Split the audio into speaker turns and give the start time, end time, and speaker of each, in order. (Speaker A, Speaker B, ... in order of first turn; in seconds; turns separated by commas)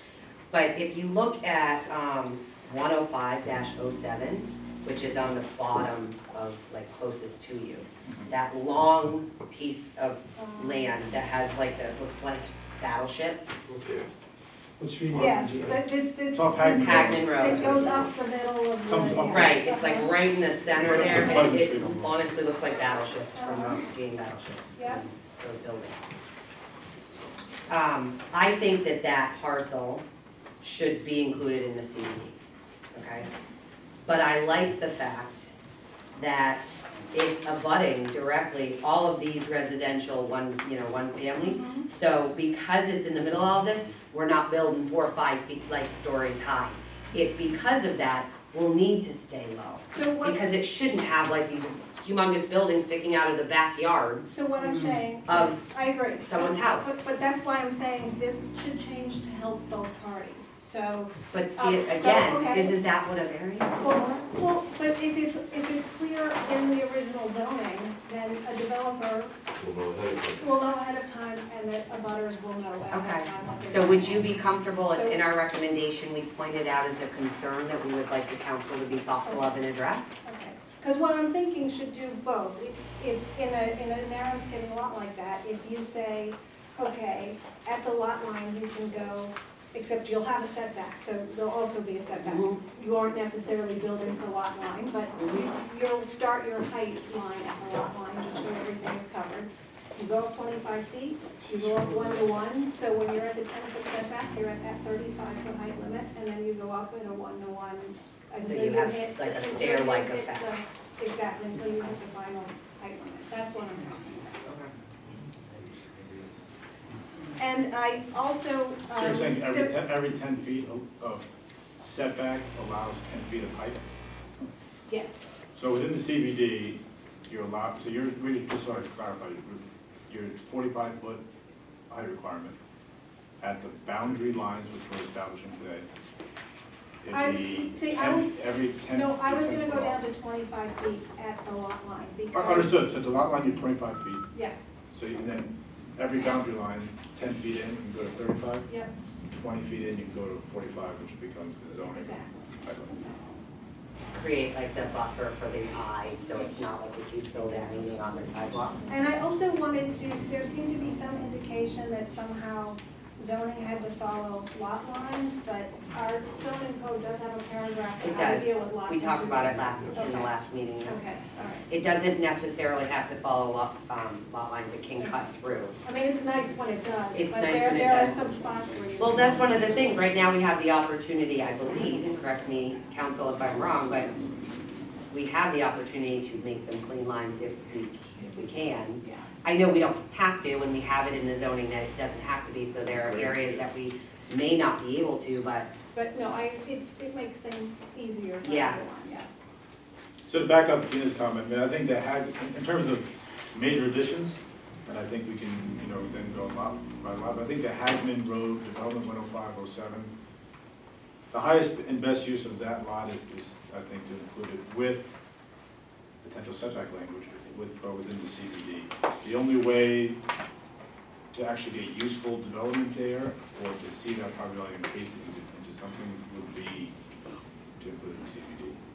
Speaker A: 0.5-13.4, Speaker B: 8.0-8.3, Speaker C: 10.3-11.0, Speaker D: 13.7-14.1, Speaker D: 14.8-15.8, Speaker C: 15.1-20.1, Speaker B: 16.3-18.1, Speaker A: 16.6-18.0, Speaker B: 18.8-19.6, Speaker A: 19.2-26.1, Speaker B: 20.8-22.1, Speaker C: 21.1-21.5, Speaker C: 23.3-23.9, Speaker C: 24.7-25.0, Speaker A: 27.7-30.0, Speaker A: 30.6-32.4, Speaker A: 32.9-33.3, Speaker A: 34.0-35.5, Speaker A: 36.1-55.6, Speaker C: 41.4-41.9, Speaker C: 49.9-50.5, Speaker C: 54.3-62.8, Speaker A: 56.2-57.0, Speaker A: 61.3-64.1, Speaker C: 63.8-69.4, Speaker D: 69.5-70.5, Speaker C: 70.4-74.3, Speaker A: 72.9-80.3, Speaker C: 74.9-75.2, Speaker C: 80.2-114.4, Speaker A: 92.2-92.6, Speaker A: 95.2-95.5, Speaker A: 108.4-110.5, Speaker A: 114.4-114.7, Speaker C: 117.4-119.7, Speaker B: 118.9-123.8, Speaker C: 124.9-125.2, Speaker B: 125.5-131.2, Speaker B: 131.9-132.6, Speaker B: 133.4-135.8, Speaker B: 137.0-140.0, Speaker C: 137.1-138.3, Speaker C: 138.9-142.7, Speaker B: 142.3-144.2, Speaker C: 144.3-144.6, Speaker B: 144.9-148.7, Speaker C: 148.7-148.9, Speaker B: 149.3-152.9, Speaker C: 151.8-153.4, Speaker A: 154.1-158.8, Speaker C: 158.9-170.3, Speaker A: 168.0-170.9, Speaker D: 169.4-170.2, Speaker C: 170.8-171.7, Speaker A: 171.7-175.7, Speaker C: 175.8-180.1, Speaker A: 177.1-178.3, Speaker A: 179.0-184.1, Speaker A: 185.1-195.7, Speaker C: 189.0-189.3, Speaker B: 193.0-193.7, Speaker C: 195.9-199.3, Speaker A: 198.4-198.8, Speaker B: 200.2-210.1, Speaker B: 211.3-215.1, Speaker B: 216.2-220.2, Speaker B: 221.3-226.9, Speaker B: 227.8-228.8